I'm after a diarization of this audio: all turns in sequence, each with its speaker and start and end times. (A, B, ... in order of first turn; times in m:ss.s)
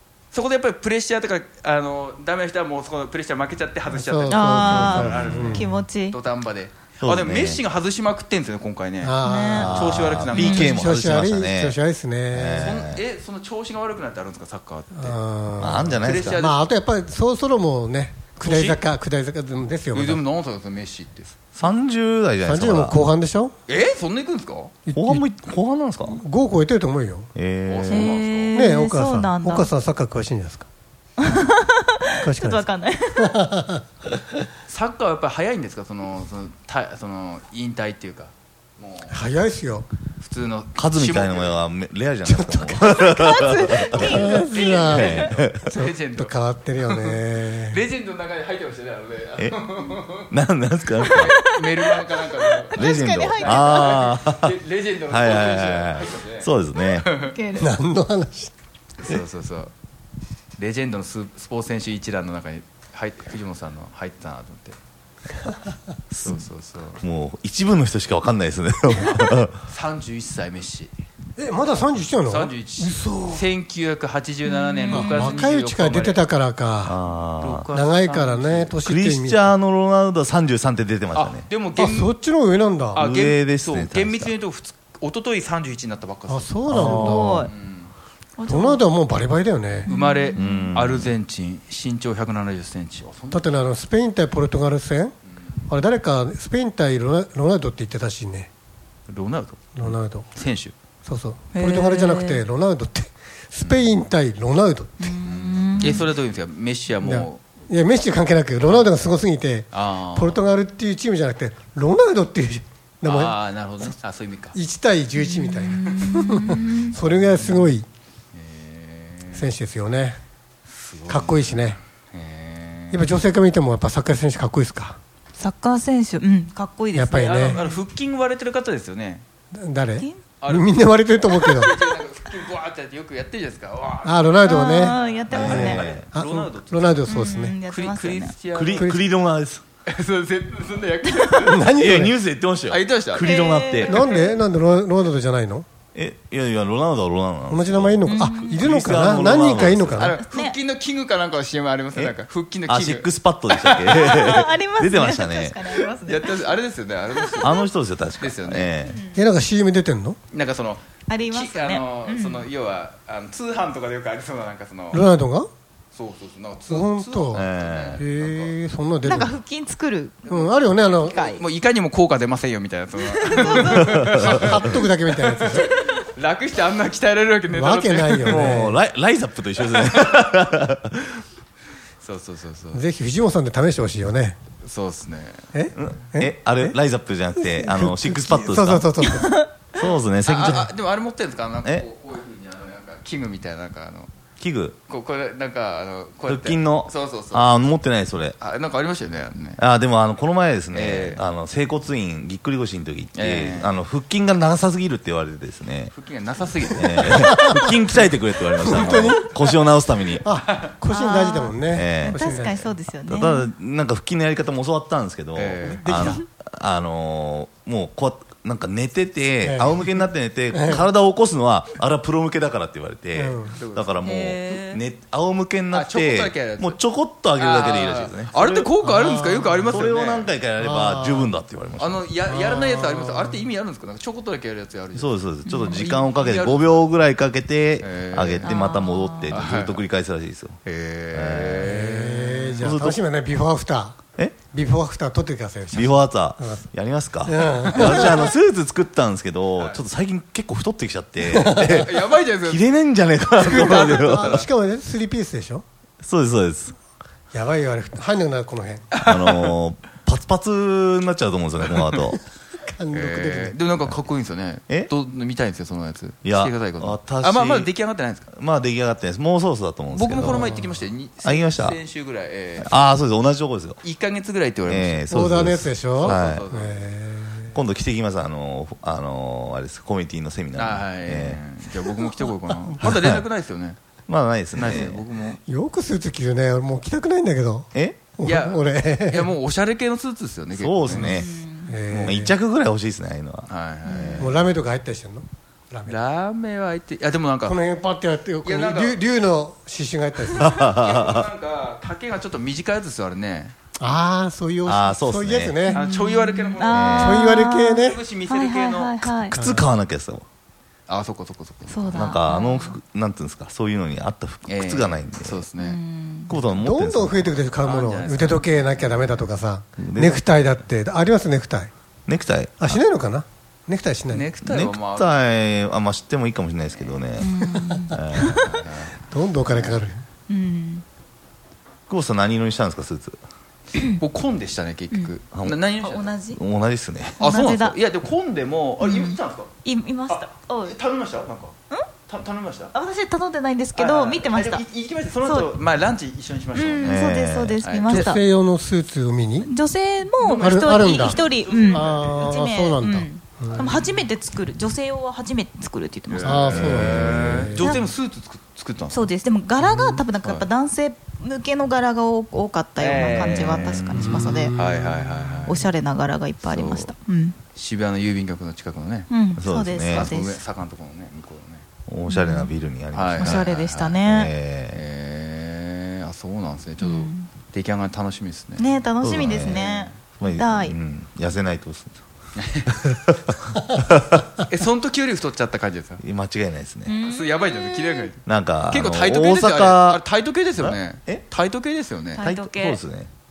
0:00.3-0:10.8 A
0:03.9-0:05.7 B
0:04.3-0:06.2 C
0:05.0-0:05.5 D
0:07.0-0:07.6 D
0:09.0-0:12.9 B
0:09.2-0:09.7 C
0:09.5-0:11.8 D
0:12.3-0:13.0 D
0:12.6-0:15.2 A
0:14.9-0:20.2 B
0:15.6-0:16.4 D
0:16.0-0:16.6 A
0:18.4-0:18.8 A
0:19.9-0:21.3 A
0:21.6-0:23.0 D
0:22.4-0:23.5 B
0:23.7-0:24.7 A
0:24.9-0:25.2 B
0:24.9-0:26.2 D
0:26.0-0:27.3 B
0:27.3-0:28.2 D
0:27.6-0:28.6 A
0:27.9-0:29.7 C
0:28.5-0:30.7 B
0:31.2-0:33.3 C
0:32.2-0:32.6 B
0:33.2-0:33.8 B
0:34.7-0:39.3 A
0:39.1-0:39.8 B
0:40.2-0:41.6 A
0:40.7-0:45.7 D
0:42.2-0:43.2 B
0:43.1-0:44.7 C
0:44.0-0:50.3 A
0:44.0-0:47.8 B
0:50.3-0:51.3 D
0:51.0-0:54.0 C
0:51.0-0:57.3 A
0:52.7-0:54.5 D
0:55.1-0:57.1 D
0:57.1-0:57.7 C
0:57.5-0:58.5 B
0:59.0-0:59.7 A
1:00.6-1:04.8 A
1:06.1-1:06.4 D
1:06.2-1:07.0 A
1:07.0-1:09.5 D
1:09.6-1:10.9 A
1:11.4-1:13.5 B
1:12.2-1:16.2 A
1:14.4-1:15.4 C
1:14.9-1:17.0 B
1:16.8-1:17.7 D
1:17.4-1:18.8 A
1:17.7-1:19.5 B
1:18.8-1:21.5 D
1:21.1-1:22.1 A
1:21.7-1:23.0 B
1:22.9-1:26.7 A
1:23.0-1:24.3 D
1:26.3-1:27.5 B
1:26.7-1:27.3 D
1:26.8-1:27.5 C
1:27.3-1:27.9 A
1:28.4-1:28.8 C
1:28.5-1:29.9 B
1:29.9-1:30.7 C
1:29.9-1:33.6 A
1:30.3-1:31.1 D
1:33.3-1:35.1 B
1:35.2-1:35.7 A
1:35.7-1:38.5 B
1:39.1-1:40.7 A
1:39.8-1:40.3 B
1:41.0-1:45.1 B
1:41.5-1:42.4 C
1:43.6-1:44.0 A
1:45.0-1:46.1 C
1:45.1-1:47.4 A
1:47.0-1:53.9 B
1:48.7-1:49.1 A
1:49.7-1:50.4 A
1:53.0-1:54.6 A
1:54.5-1:57.8 B
1:55.2-1:57.0 C
1:56.5-1:57.8 A
1:58.3-1:59.6 A
1:59.3-2:00.2 B
2:00.7-2:03.1 A
2:01.1-2:01.8 B
2:02.9-2:05.0 B
2:05.4-2:07.8 C
2:06.9-2:07.6 B
2:07.2-2:09.2 A
2:09.5-2:11.8 B
2:10.4-2:17.1 A
2:14.0-2:17.6 B
2:14.4-2:15.8 C
2:15.3-2:16.1 D
2:17.1-2:18.4 C
2:17.7-2:18.9 A
2:18.5-2:19.6 D
2:18.7-2:19.0 B
2:19.9-2:21.7 A
2:21.4-2:22.1 B
2:21.6-2:24.2 D
2:22.7-2:23.3 A
2:23.2-2:24.0 C
2:23.8-2:25.6 B
2:25.9-2:30.1 D
2:27.5-2:30.2 B
2:28.0-2:28.6 C
2:29.9-2:34.2 A
2:30.2-2:30.6 C
2:31.9-2:35.6 D
2:33.9-2:36.4 C
2:35.7-2:37.6 A
2:37.4-2:39.0 D
2:38.2-2:38.7 A
2:38.8-2:39.2 C
2:39.1-2:40.2 B
2:40.3-2:45.0 A
2:41.1-2:42.4 C
2:44.9-2:45.5 B
2:45.9-2:48.6 A
2:46.7-2:49.3 B
2:47.3-2:48.0 D
2:49.0-2:50.3 C
2:50.3-2:51.2 B
2:50.3-2:58.5 A
2:50.9-2:51.5 C
2:53.1-2:53.5 C
2:53.4-2:55.7 B
2:53.7-2:54.6 D
2:57.5-2:58.8 B
2:58.2-3:01.2 D
3:02.0-3:02.8 A
3:02.7-3:04.4 B
3:04.6-3:05.4 A
3:05.5-3:06.7 B
3:05.7-3:09.0 D
3:07.4-3:09.4 B
3:09.7-3:10.7 D
3:10.2-3:14.1 A
3:14.4-3:14.8 D
3:14.9-3:17.6 A
3:16.2-3:18.4 D
3:18.4-3:19.6 A
3:19.6-3:25.9 D
3:20.7-3:21.2 A
3:23.1-3:23.8 A
3:25.9-3:27.4 A
3:26.7-3:30.2 D
3:27.1-3:27.6 B
3:28.5-3:29.4 B
3:30.2-3:32.8 B
3:30.9-3:33.5 C
3:31.7-3:32.3 D
3:33.0-3:48.8 D
3:35.3-3:36.2 A
3:35.6-3:36.2 B
3:39.4-3:39.8 B
3:40.5-3:40.8 B
3:43.1-3:43.5 B
3:43.5-3:44.0 A
3:44.0-3:44.8 C
3:45.7-3:46.8 A
3:47.4-3:50.3 A
3:48.8-3:49.7 B
3:49.7-3:52.1 D
3:50.6-3:51.3 B
3:51.8-3:56.9 A
3:52.3-3:53.4 B
3:54.9-4:00.6 D
3:55.5-3:55.8 C
3:57.8-3:58.6 A
3:58.4-3:59.4 C
3:59.3-3:59.8 A
4:00.6-4:02.6 A
4:01.1-4:01.8 D
4:01.6-4:04.0 B
4:02.6-4:03.0 D
4:04.5-4:06.6 B
4:05.7-4:11.9 D
4:07.2-4:08.3 B
4:11.2-4:11.9 B
4:11.4-4:12.7 A
4:12.4-4:14.4 D
4:13.4-4:14.5 A
4:13.4-4:15.6 B
4:16.0-4:16.8 D
4:17.3-4:19.0 B
4:18.9-4:19.6 A
4:19.0-4:22.2 D
4:22.1-4:23.6 B
4:22.9-4:28.3 A
4:26.2-4:27.7 D
4:28.3-4:30.4 D
4:29.9-4:32.7 A
4:30.2-4:30.7 B
4:31.2-4:31.8 D
4:32.6-4:33.8 D
4:33.8-4:35.0 A
4:34.6-4:36.4 D
4:35.1-4:37.6 B
4:36.0-4:36.9 A
4:37.5-4:41.4 D
4:40.5-4:43.8 A
4:42.5-4:42.8 B
4:42.8-4:43.2 D
4:44.1-4:45.0 D
4:44.5-4:45.4 A
4:45.5-4:49.3 B
4:47.7-4:48.1 D
4:48.2-4:51.1 A
4:50.5-4:51.3 D
4:50.9-4:52.4 B
4:51.1-4:51.8 C
4:51.9-4:54.4 D
4:53.5-4:54.4 A
4:54.2-4:56.0 B
4:55.8-4:57.6 A
4:57.4-5:00.5 B
4:58.4-4:59.0 A
5:00.3-5:01.3 D
5:00.4-5:03.5 A
5:03.8-5:05.8 B
5:04.6-5:05.7 D
5:05.6-5:09.4 C
5:05.7-5:09.1 A
5:06.6-5:07.1 D
5:06.9-5:08.0 B
5:09.3-5:09.7 B
5:09.3-5:10.2 D
5:10.9-5:12.2 A
5:11.7-5:12.8 C
5:11.9-5:15.4 D
5:14.4-5:15.8 A
5:15.6-5:16.4 C
5:16.3-5:17.4 D
5:16.4-5:21.7 B
5:17.6-5:19.3 A
5:19.8-5:20.2 D
5:22.1-5:22.8 D
5:22.6-5:24.3 B
5:24.1-5:25.2 A
5:24.4-5:28.5 D
5:27.2-5:28.5 C
5:27.5-5:28.0 B
5:28.1-5:28.9 A
5:29.1-5:30.0 B
5:29.5-5:29.8 A
5:30.3-5:30.8 C
5:31.9-5:33.2 D
5:33.7-5:34.0 C
5:33.9-5:36.1 A
5:35.3-5:35.7 D
5:35.7-5:36.4 C
5:36.3-5:37.2 D
5:37.2-5:39.5 A
5:37.2-5:37.8 C
5:38.8-5:40.8 C
5:40.1-5:41.6 A
5:42.1-5:42.7 A
5:42.7-5:44.6 C
5:43.7-5:47.0 A
5:45.2-5:45.5 C
5:46.5-5:48.2 C
5:46.8-5:47.6 D
5:47.6-5:48.1 A
5:47.9-5:49.5 B
5:49.4-5:57.9 C
5:50.2-5:52.4 A
5:50.3-5:53.7 B
5:53.5-5:53.8 A
5:56.1-5:59.1 A
5:56.2-5:57.7 B
5:56.4-5:57.3 D
5:58.9-6:04.6 C
5:59.8-6:00.4 D
6:02.8-6:03.8 A
6:03.3-6:04.3 D
6:03.9-6:05.4 B
6:04.5-6:05.7 A
6:05.4-6:07.4 C
6:06.4-6:06.9 A
6:07.5-6:09.1 A
6:09.1-6:10.4 C
6:09.3-6:10.1 D
6:09.9-6:11.6 A
6:11.9-6:14.8 D
6:12.1-6:12.5 C
6:12.9-6:14.0 A
6:13.2-6:14.3 C
6:14.7-6:18.7 A
6:16.8-6:17.3 C
6:18.6-6:20.8 C
6:19.0-6:22.0 D
6:19.4-6:20.0 A
6:22.4-6:22.8 A
6:22.8-6:24.2 D
6:24.4-6:26.0 A
6:26.0-6:27.0 D
6:26.8-6:28.1 C
6:27.0-6:32.3 A
6:28.2-6:30.0 D
6:30.6-6:31.2 D
6:32.1-6:32.8 C
6:32.2-6:33.1 D